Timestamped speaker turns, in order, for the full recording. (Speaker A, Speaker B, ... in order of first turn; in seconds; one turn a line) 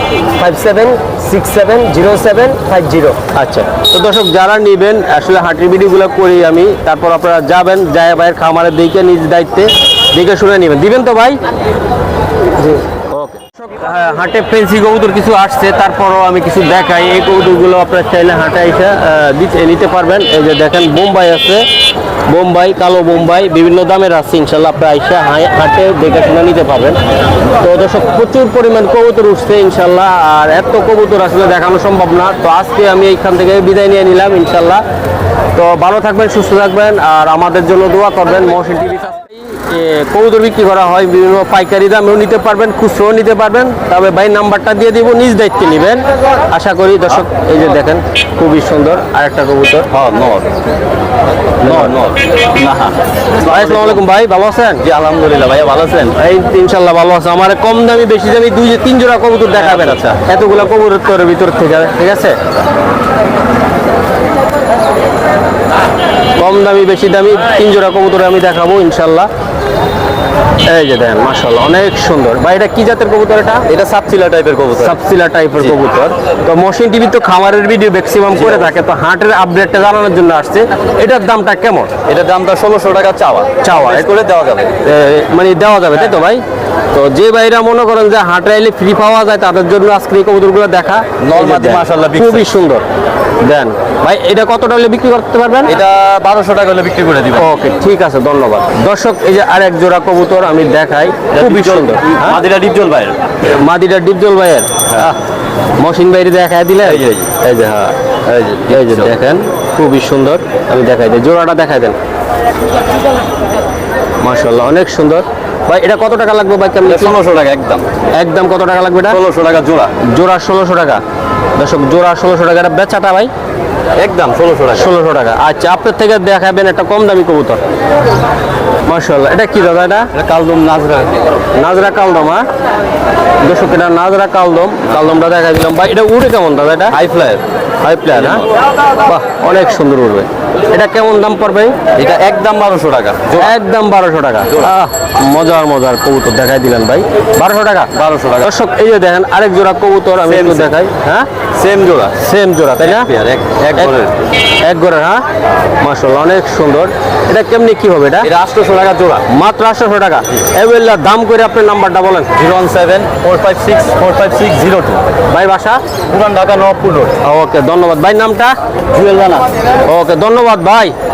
Speaker A: 0.4-3.2
Speaker B: 3.4-11.4
Speaker B: 13.1-21.6
Speaker B: 22.3-27.0
Speaker B: 27.6-34.8
Speaker B: 35.5-49.9
Speaker C: 49.9-50.5
Speaker C: 51.6-54.0
Speaker B: 51.6-52.0
Speaker B: 53.4-54.8
Speaker C: 54.8-56.1
Speaker B: 56.2-62.4
Speaker C: 59.5-60.2
Speaker B: 66.4-69.3
Speaker B: 70.7-73.6
Speaker C: 73.7-74.9
Speaker B: 74.8-81.9
Speaker C: 78.3-78.7
Speaker C: 82.1-84.8
Speaker B: 83.7-84.1
Speaker B: 84.8-92.8
Speaker C: 91.2-92.5
Speaker B: 93.4-95.7
Speaker C: 95.7-97.5
Speaker B: 97.4-102.4
Speaker C: 101.3-103.2
Speaker B: 103.4-105.2
Speaker C: 104.9-105.1
Speaker B: 105.8-107.9
Speaker C: 106.8-107.3
Speaker C: 108.3-109.1
Speaker B: 108.7-112.0
Speaker B: 114.2-117.2
Speaker C: 116.8-117.8
Speaker B: 118.1-119.2
Speaker C: 119.1-119.9
Speaker B: 120.0-121.0
Speaker B: 121.6-123.3
Speaker C: 124.0-124.9
Speaker B: 124.7-127.6
Speaker B: 128.9-130.1
Speaker C: 130.1-131.2
Speaker B: 131.6-132.5
Speaker B: 133.4-137.0
Speaker C: 136.9-137.4
Speaker B: 137.8-138.4
Speaker C: 138.1-138.5
Speaker B: 139.1-141.8
Speaker C: 141.9-143.5
Speaker B: 143.3-151.3
Speaker C: 144.5-144.8
Speaker C: 147.9-148.5
Speaker C: 150.2-150.7
Speaker C: 151.6-152.2
Speaker B: 152.2-153.1
Speaker C: 152.8-154.2
Speaker B: 154.6-155.2
Speaker B: 155.8-158.3
Speaker C: 158.2-159.2
Speaker B: 159.3-162.3
Speaker C: 162.4-165.2
Speaker B: 165.3-165.8
Speaker C: 166.1-167.1
Speaker B: 167.2-168.6
Speaker C: 168.9-169.5
Speaker B: 169.9-170.9